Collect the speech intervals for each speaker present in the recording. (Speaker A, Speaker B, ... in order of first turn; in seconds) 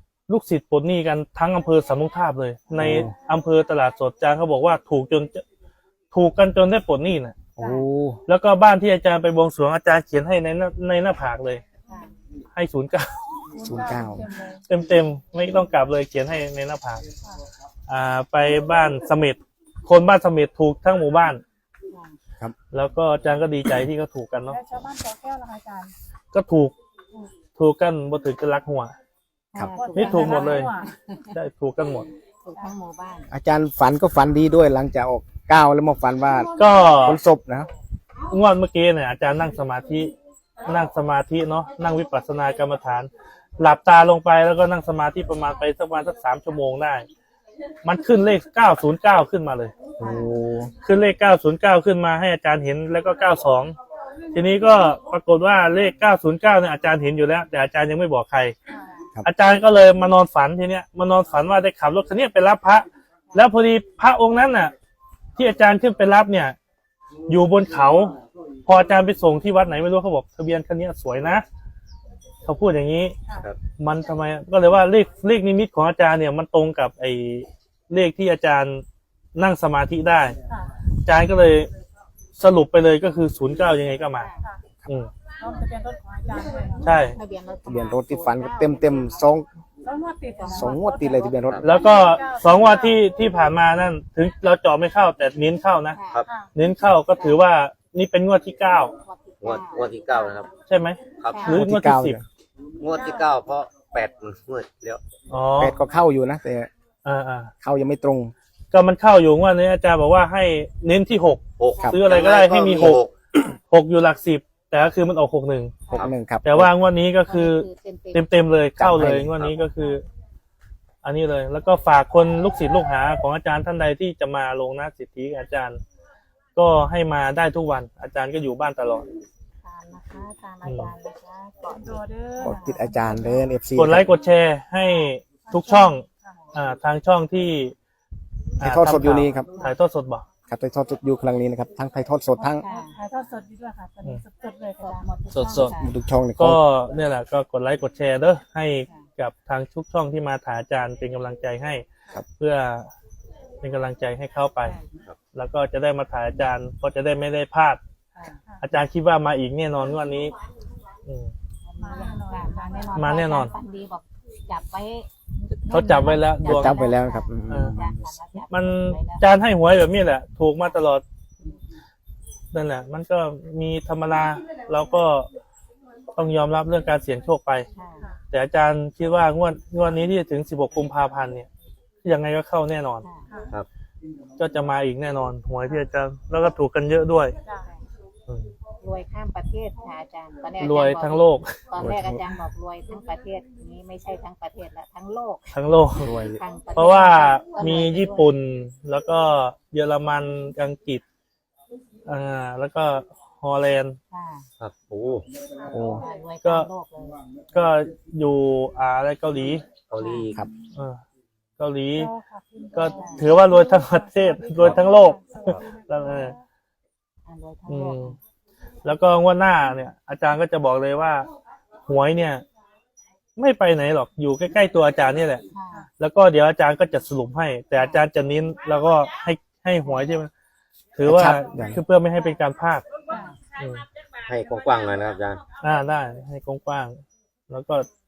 Speaker A: 0.3-5.4, 6.1-7.4, 8.3-11.6, 12.5-13.2, 14.7-17.0, 17.9-21.4, 22.7-24.6, 26.3-26.7, 27.6-29.0, 29.9-30.7, 31.3-32.1, 36.6-37.2, 38.3-40.1, 40.6-47.1, 47.8-49.8, 50.8-53.8, 54.3-58.6, 59.2-64.7, 65.4-66.6, 67.3-71.5, 72.5-73.2, 73.8-78.8, 79.3-80.4, 81.0-81.7, 82.4-84.3, 86.8-87.2, 91.6-96.0, 96.5-99.0, 100.7-102.2, 105.3-105.8, 107.0-107.5, 108.7-113.0, 113.7-115.8, 116.4-120.0, 121.0-125.8, 126.6-129.1, 130.6-130.9, 133.8-137.8, 138.6-140.3, 145.3-145.8, 146.4-151.8, 152.4-152.9, 153.6-154.8, 155.3-157.8, 158.6-160.3, 161.1-161.3, 162.9-163.5, 165.7-166.8, 167.5-167.8, 168.5-171.0, 172.5-175.3, 176.1-177.7, 178.3-181.5, 182.0-183.1, 184.4-187.3, 188.3-188.5, 190.6-191.6, 195.5-196.2, 196.7-201.0, 202.1-204.0, 206.4-206.7, 207.5-209.7, 210.7-211.0, 211.6-212.1, 212.7-216.3, 217.7-218.2, 218.8-221.3, 221.9-222.4, 223.4-225.4, 226.0-230.3, 231.0-232.8, 233.6-233.8, 235.6-237.9
Speaker B: 2.7-3.1, 7.6-8.2, 13.6-14.3, 33.3-37.7, 50.0-50.7, 87.7-89.5, 90.5-91.7, 101.5-102.2, 105.6-106.7, 107.6-108.3, 115.9-116.7, 118.8-119.3, 132.4-134.2, 138.6-139.5, 140.5-142.7, 145.8-146.6, 166.4-168.2, 191.8-192.3, 196.0-196.4, 205.7-206.1, 231.0-231.8
Speaker C: 7.6-7.9, 11.9-12.1, 21.9-22.2, 29.5-31.4, 32.4-33.3, 50.0-50.3, 84.2-84.5, 86.8-89.3, 90.3-92.2, 95.9-96.3, 97.2-97.4, 99.0-100.5, 101.3-101.6, 117.3-118.3, 129.6-133.4, 142.6-143.0, 144.8-146.0, 154.6-154.9, 161.6-169.2, 177.8-178.1, 183.0-183.3, 188.8-198.3, 204.1-204.5, 205.9-207.2, 210.0-210.3, 212.9-213.3, 217.3-218.2, 225.5-225.9, 227.8-228.1, 229.8-230.1, 233.1-233.4
Speaker D: 13.5-14.6, 24.5-25.9, 29.7-30.9, 58.7-59.0, 80.5-80.7, 85.4-86.9, 89.8-93.0, 96.2-96.5, 102.9-103.3, 131.7-133.3, 135.4-136.4, 142.4-145.6, 161.8-163.4, 187.4-187.7, 210.3-210.7, 212.0-216.4
Speaker E: 99.4-100.5, 101.2-101.6, 102.8-105.0, 111.6-113.1, 204.6-205.3, 209.9-210.4, 234.3-235.4